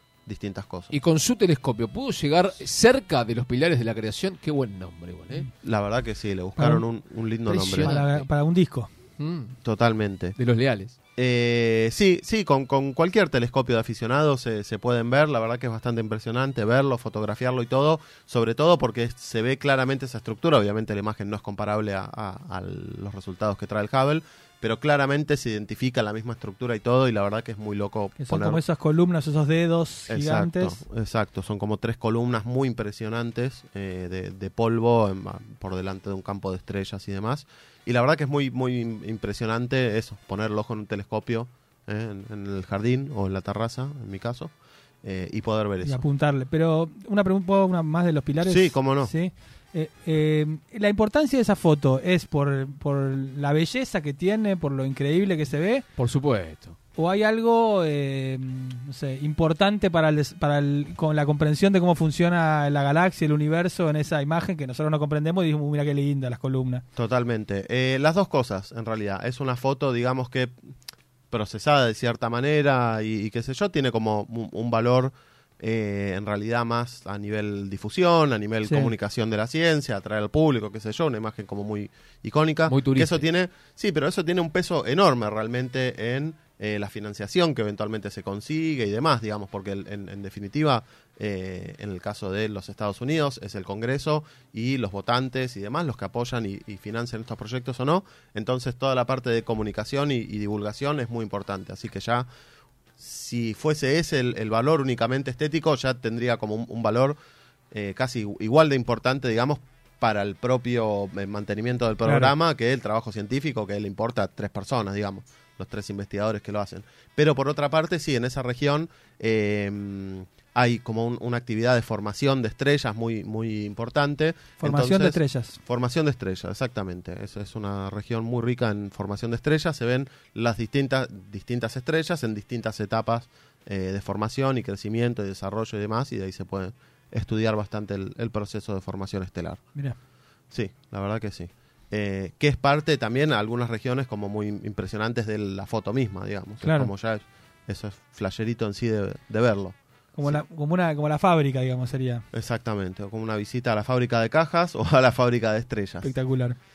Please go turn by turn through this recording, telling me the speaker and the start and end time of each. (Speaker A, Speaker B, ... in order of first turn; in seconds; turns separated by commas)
Speaker A: 0.2-0.9, Speaker B: 0.9-5.5, Speaker A: 5.6-8.0, Speaker C: 6.6-6.8, Speaker B: 7.5-8.2, Speaker C: 7.8-8.9, Speaker B: 9.2-9.6, Speaker A: 9.6-10.4, Speaker B: 10.4-10.9, Speaker A: 11.2-28.6, Speaker C: 28.2-30.8, Speaker A: 30.1-46.0, Speaker C: 45.8-55.9, Speaker A: 48.5-49.1, Speaker B: 56.0-56.8, Speaker C: 57.0-66.8, Speaker A: 67.0-70.5, Speaker A: 71.3-102.2, Speaker C: 78.6-78.9, Speaker B: 82.7-83.2, Speaker A: 103.0-107.2, Speaker A: 107.7-139.6, Speaker C: 112.1-112.3, Speaker C: 124.6-125.6, Speaker A: 140.5-150.4, Speaker C: 146.6-146.9, Speaker C: 150.1-152.2, Speaker A: 152.3-156.1, Speaker C: 156.0-156.6